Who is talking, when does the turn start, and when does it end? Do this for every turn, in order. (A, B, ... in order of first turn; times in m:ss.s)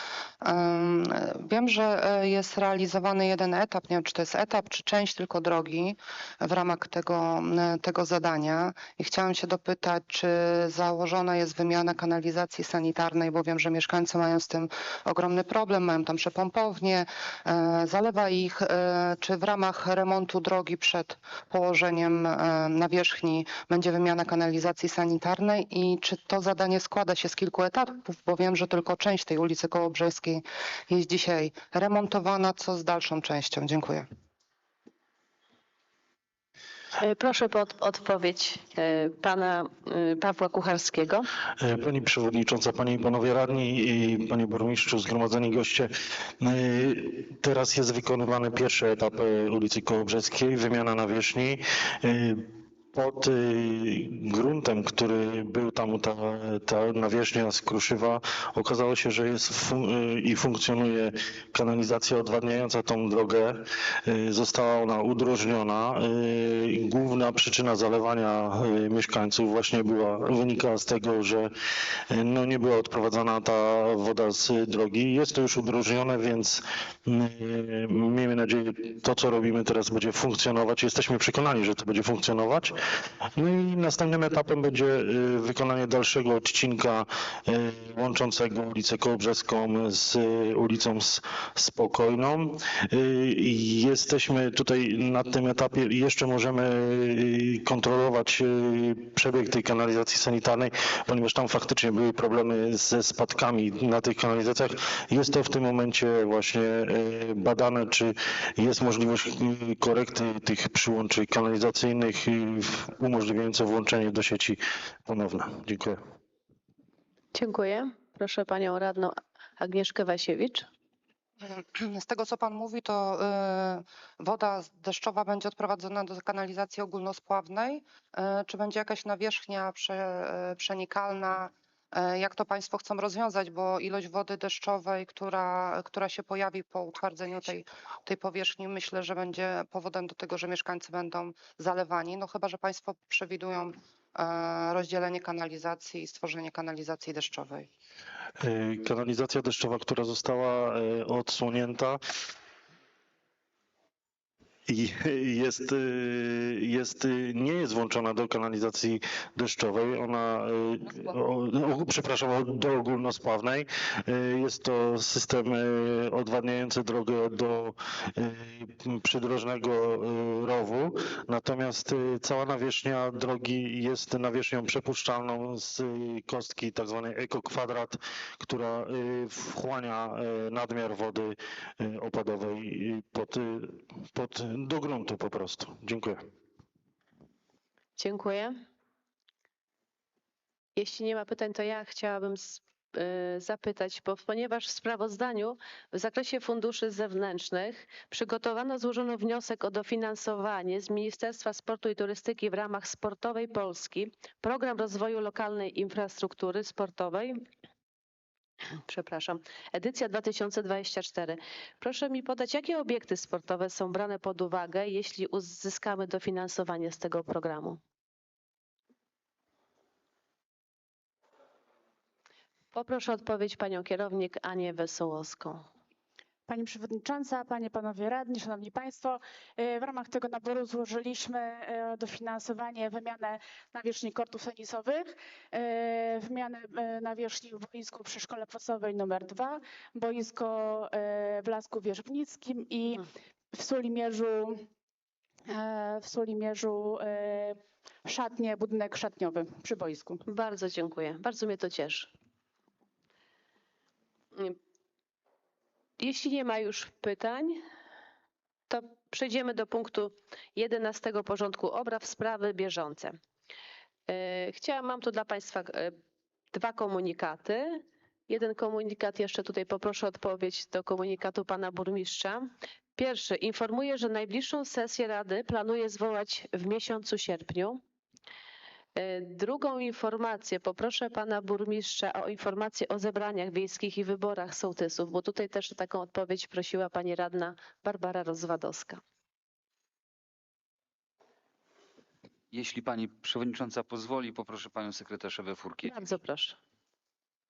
0:00.4-0:34.0 A
0:37.0-0:41.3 B
0:41.6-0:45.9 C
0:46.4-0:52.4 C
0:52.9-1:03.6 C
1:04.1-1:11.5 C
1:12.1-1:22.7 C
1:23.4-1:56.0 C
1:57.3-2:00.6 B
2:01.5-2:27.7 A
2:28.4-2:32.0 C
2:34.7-3:06.2 C
3:08.0-3:08.5 B
3:10.8-3:27.4 B
3:28.9-3:37.8 B
3:42.7-3:45.6 B
3:46.5-4:04.6 D
4:05.5-4:10.2 D
4:10.3-4:12.1 B
4:16.0-4:17.6 B
4:18.7-4:23.2 B
4:24.1-4:25.9 B
4:26.5-4:37.8 B
4:39.0-4:49.0 B
4:52.5-4:55.9 E
4:55.9-4:56.6 B